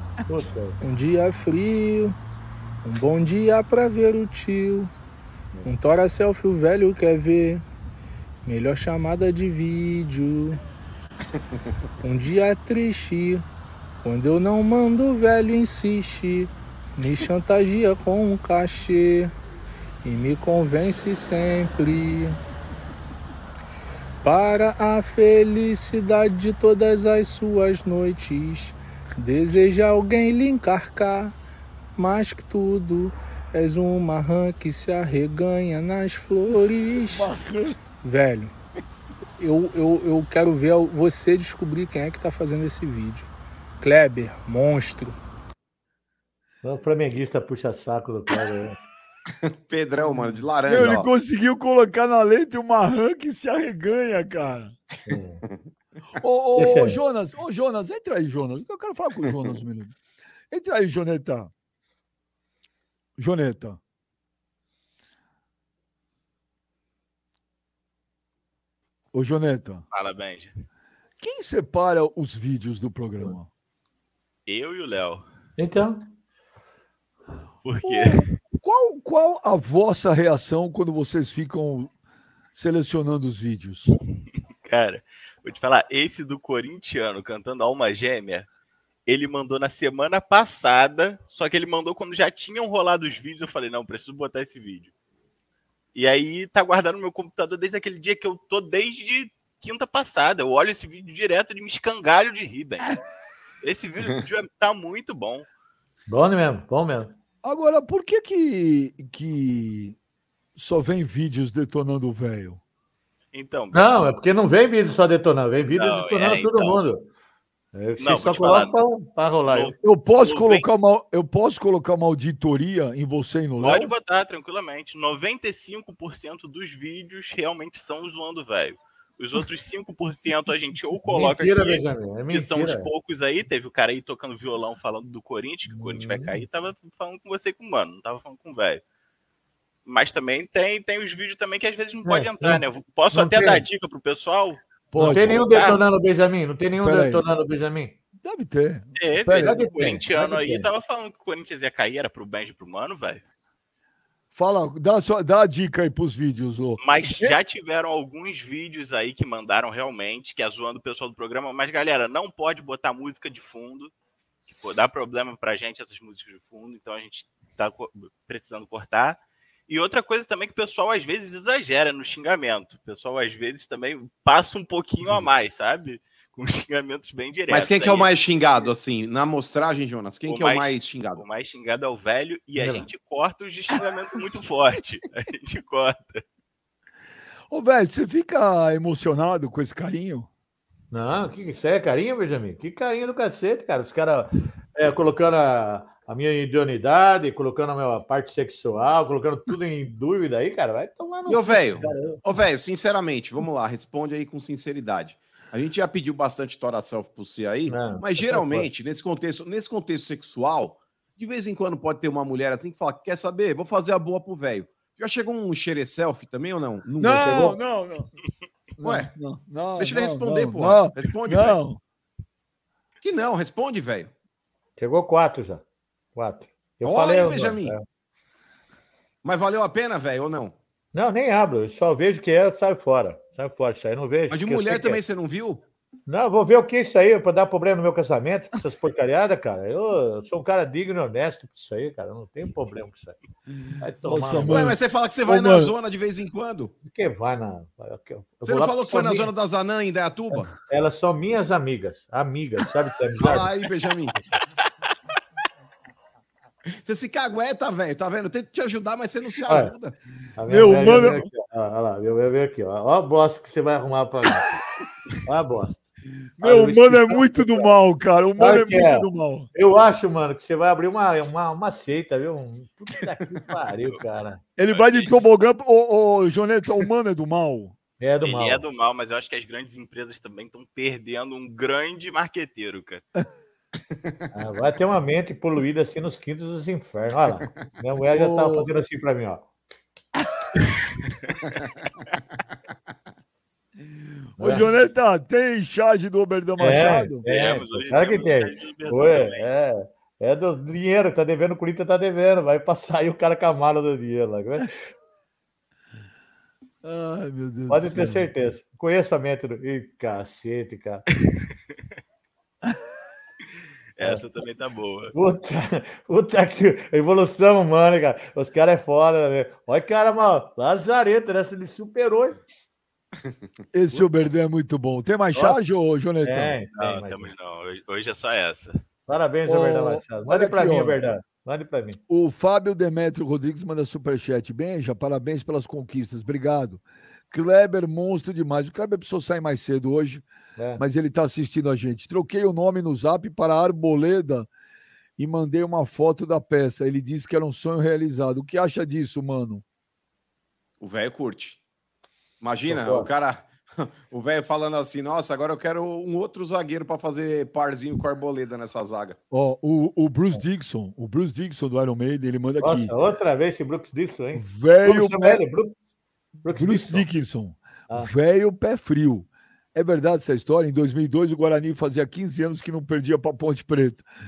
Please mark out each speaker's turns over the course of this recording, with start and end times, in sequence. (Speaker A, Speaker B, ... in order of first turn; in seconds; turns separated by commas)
Speaker A: 0.3-0.8, Speaker B: 0.8-2.1, Speaker B: 2.8-4.9, Speaker B: 5.6-7.6, Speaker B: 8.4-10.6, Speaker B: 12.0-13.4, Speaker B: 14.0-19.3, Speaker B: 20.0-22.4, Speaker B: 24.2-31.3, Speaker B: 31.9-37.3, Speaker C: 37.1-37.8, Speaker B: 38.0-38.5, Speaker B: 39.4-43.3, Speaker B: 43.8-45.2, Speaker A: 46.6-48.8, Speaker D: 49.5-51.1, Speaker C: 50.6-54.7, Speaker A: 50.7-51.0, Speaker A: 55.0-55.4, Speaker C: 56.2-59.9, Speaker A: 56.5-57.0, Speaker D: 59.2-59.5, Speaker C: 60.5-61.5, Speaker C: 63.2-63.8, Speaker C: 69.1-69.8, Speaker E: 69.9-70.5, Speaker C: 71.2-73.5, Speaker E: 74.5-75.2, Speaker A: 75.6-76.1, Speaker E: 77.6-78.3, Speaker C: 77.8-81.9, Speaker C: 82.5-83.9, Speaker E: 84.6-88.5, Speaker E: 89.1-94.9, Speaker E: 95.9-103.0, Speaker E: 103.6-105.5, Speaker A: 106.1-107.1, Speaker C: 107.4-109.9, Speaker C: 110.5-112.6, Speaker E: 113.3-114.0, Speaker A: 113.7-117.0, Speaker E: 115.7-116.8, Speaker A: 117.7-119.7, Speaker E: 118.0-118.7, Speaker E: 119.5-120.7, Speaker C: 119.8-123.9, Speaker E: 123.6-138.8, Speaker A: 131.1-132.9, Speaker A: 135.7-136.4, Speaker E: 139.8-144.6, Speaker A: 142.1-143.6, Speaker C: 144.9-145.7, Speaker A: 144.9-147.9, Speaker C: 146.8-147.2, Speaker C: 148.2-149.6, Speaker E: 148.9-153.2, Speaker A: 149.3-150.7, Speaker C: 154.3-157.3, Speaker E: 156.8-163.9, Speaker E: 164.5-178.1, Speaker D: 177.5-181.2, Speaker E: 180.2-186.2, Speaker A: 182.6-182.8, Speaker C: 187.5-190.3, Speaker A: 190.9-202.2, Speaker D: 201.3-217.6, Speaker A: 207.7-208.7, Speaker C: 217.0-218.1, Speaker C: 218.8-221.8, Speaker D: 218.8-219.1, Speaker D: 219.8-221.6, Speaker D: 223.0-224.1, Speaker A: 224.8-225.6, Speaker A: 226.2-227.8, Speaker D: 226.8-227.7, Speaker D: 229.2-230.5, Speaker A: 230.9-235.0, Speaker D: 234.3-235.6, Speaker A: 236.1-243.2, Speaker A: 243.8-244.7, Speaker C: 244.0-245.7, Speaker D: 244.5-246.7, Speaker A: 246.9-249.3, Speaker D: 248.4-250.5, Speaker A: 250.3-253.5, Speaker D: 253.2-254.2, Speaker D: 256.8-259.9, Speaker A: 259.5-259.7, Speaker A: 260.4-264.6, Speaker C: 260.5-261.3, Speaker A: 265.2-265.9, Speaker C: 266.4-269.5, Speaker A: 266.4-267.7, Speaker A: 268.4-274.4, Speaker C: 274.6-277.7, Speaker E: 274.7-275.1, Speaker A: 278.0-278.6, Speaker E: 278.2-283.0, Speaker A: 284.3-289.4, Speaker C: 288.1-288.7, Speaker A: 294.4-294.6, Speaker C: 294.4-297.2, Speaker A: 296.6-304.7, Speaker E: 297.2-299.4, Speaker C: 306.8-308.3, Speaker A: 307.7-311.0, Speaker E: 314.0-315.1, Speaker A: 315.1-322.4, Speaker C: 323.7-326.6, Speaker A: 325.3-325.6, Speaker A: 326.2-327.3, Speaker E: 326.7-328.8, Speaker A: 329.1-332.0, Speaker C: 329.5-330.9, Speaker C: 332.1-340.2, Speaker A: 340.6-340.8, Speaker C: 340.8-344.5, Speaker C: 345.2-349.6, Speaker D: 350.8-351.6, Speaker D: 352.4-359.2, Speaker A: 352.7-353.1, Speaker C: 359.3-362.9, Speaker A: 362.6-365.7, Speaker C: 364.4-365.4, Speaker A: 366.4-367.1, Speaker C: 366.5-374.0